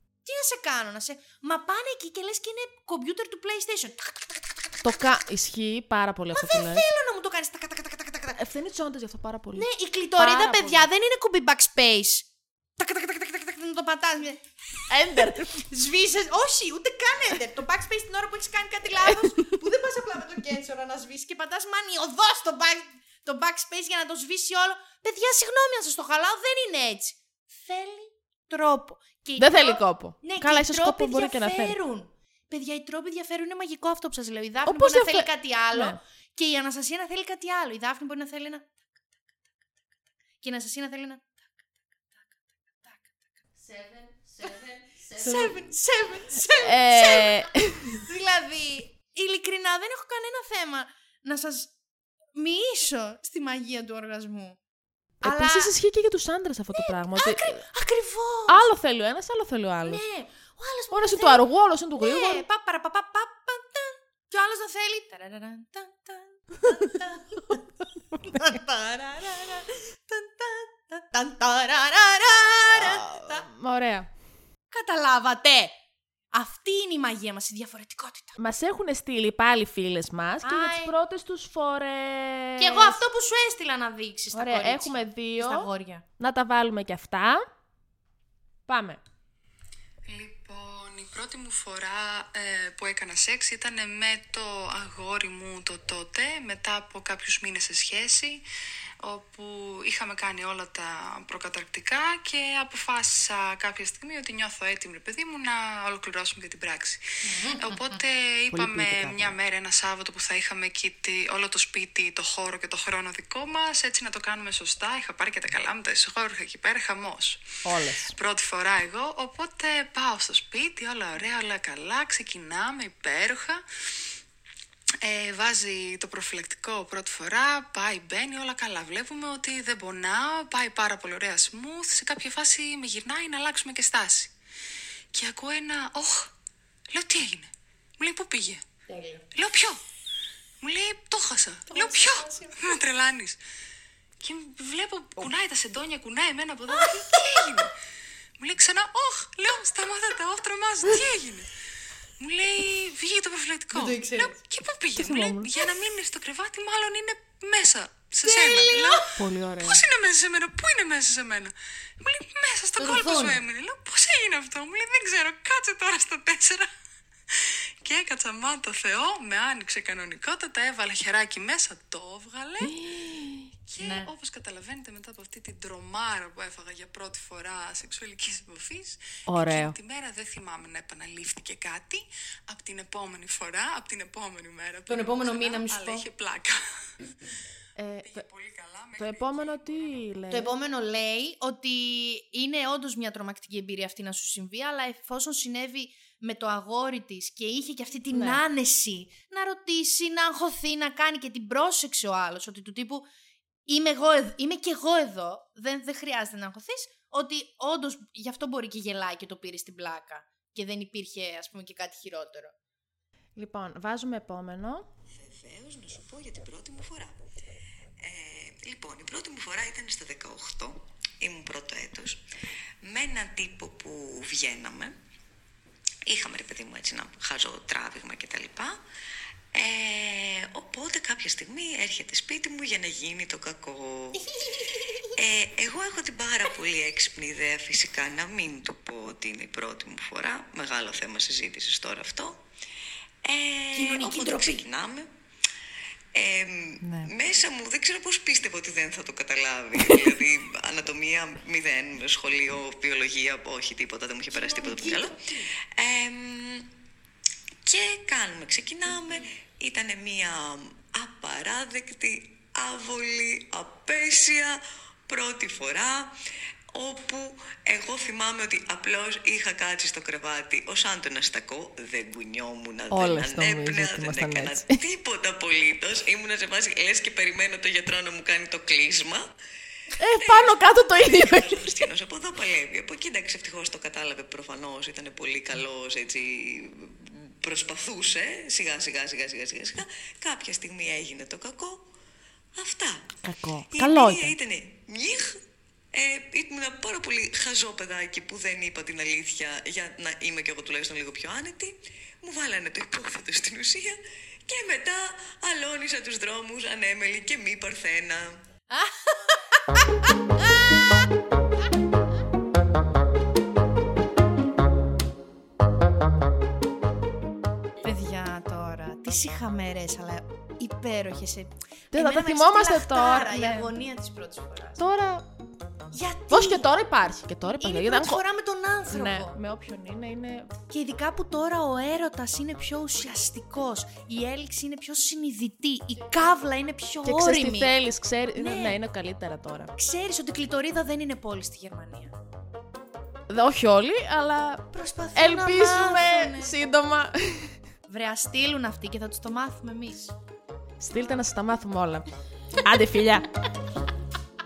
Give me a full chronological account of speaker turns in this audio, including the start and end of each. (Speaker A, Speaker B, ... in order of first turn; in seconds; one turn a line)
Speaker A: 0.2-4.2
Speaker B: 4.8-6.8
Speaker A: 6.3-8.4
Speaker B: 8.4-9.7
Speaker A: 9.6-14.4
Speaker B: 10.2-10.9
Speaker B: 14.9-15.7
Speaker A: 15.2-39.0
Speaker B: 19.1-19.5
Speaker B: 29.4-31.8
Speaker B: 34.6-36.0
Speaker A: 40.4-41.5
Speaker A: 42.1-43.2
Speaker B: 43.6-45.7
Speaker A: 45.2-51.7
Speaker B: 46.5-48.0
Speaker A: 52.4-54.6
Speaker B: 55.2-57.6
Speaker A: 55.2-55.7
Speaker A: 56.7-58.6
Speaker B: 58.5-60.0
Speaker A: 59.8-61.4
Speaker B: 60.9-62.4
Speaker A: 62.0-67.7
Speaker B: 68.2-68.5
Speaker A: 68.2-73.5
Speaker B: 72.8-74.1
Speaker A: 74.7-75.7
Speaker A: 76.3-78.4
Speaker B: 78.4-83.0
Speaker A: 80.4-80.9
Speaker A: 82.6-86.0
Speaker B: 84.3-85.7
Speaker B: 86.2-87.5
Speaker B: 88.7-89.0
Speaker C: 90.0-98.4
Speaker C: 99.0-117.5
Speaker A: 107.3-107.8
Speaker B: 108.5-109.4
Speaker B: 117.6-118.1
Speaker C: 118.0-123.6
Speaker C: 125.0-134.3
Speaker C: 135.1-136.3
Speaker C: 136.9-138.6
Speaker A: 138.9-139.2
Speaker C: 139.3-139.8
Speaker C: 140.6-143.4
Speaker A: 141.7-142.6
Speaker C: 144.2-147.7
Speaker C: 148.4-151.5
Speaker C: 152.2-166.7
Speaker A: 153.7-154.3
Speaker B: 154.9-155.5
Speaker A: 158.2-159.1
Speaker B: 159.2-159.8
Speaker A: 162.8-163.4
Speaker C: 167.3-172.7
Speaker B: 172.6-173.5
Speaker C: 173.7-186.6
Speaker A: 173.8-174.1
Speaker B: 179.3-179.8
Speaker A: 184.9-186.1
Speaker B: 187.8-188.3
Speaker C: 188.1-190.0
Speaker B: 189.0-190.5
Speaker A: 190.3-203.1
Speaker B: 198.1-198.4
Speaker A: 203.7-212.5
Speaker B: 213.4-214.9
Speaker D: 215.1-217.2
Speaker D: 218.0-222.2
Speaker D: 222.8-225.0
Speaker D: 226.1-228.8
Speaker D: 229.5-234.3
Speaker D: 235.1-242.4
Speaker D: 243.2-245.1
Speaker A: 243.7-244.6
Speaker D: 246.1-256.7
Speaker B: 246.8-247.1
Speaker A: 254.3-255.4
Speaker D: 257.6-266.1
Speaker D: 266.7-279.3
Speaker B: 272.9-274.8
Speaker B: 280.0-281.9
Speaker D: 280.2-291.9
Speaker D: 292.6-293.2
Speaker B: 293.2-294.3
Speaker D: 293.7-308.4
Speaker A: 308.7-311.1
Speaker A: 317.8-324.8
Speaker B: 321.9-323.7
Speaker B: 324.8-325.3
Speaker A: 325.9-326.7
Speaker B: 326.3-328.2
Speaker A: 327.6-329.4
Speaker B: 328.9-330.5
Speaker A: 330.7-337.7
Speaker B: 337.1-339.7
Speaker A: 338.4-338.8
Speaker A: 339.8-342.1
Speaker B: 343.3-347.6
Speaker A: 344.7-346.6
Speaker A: 347.9-350.1
Speaker B: 350.8-352.1
Speaker B: 352.6-353.3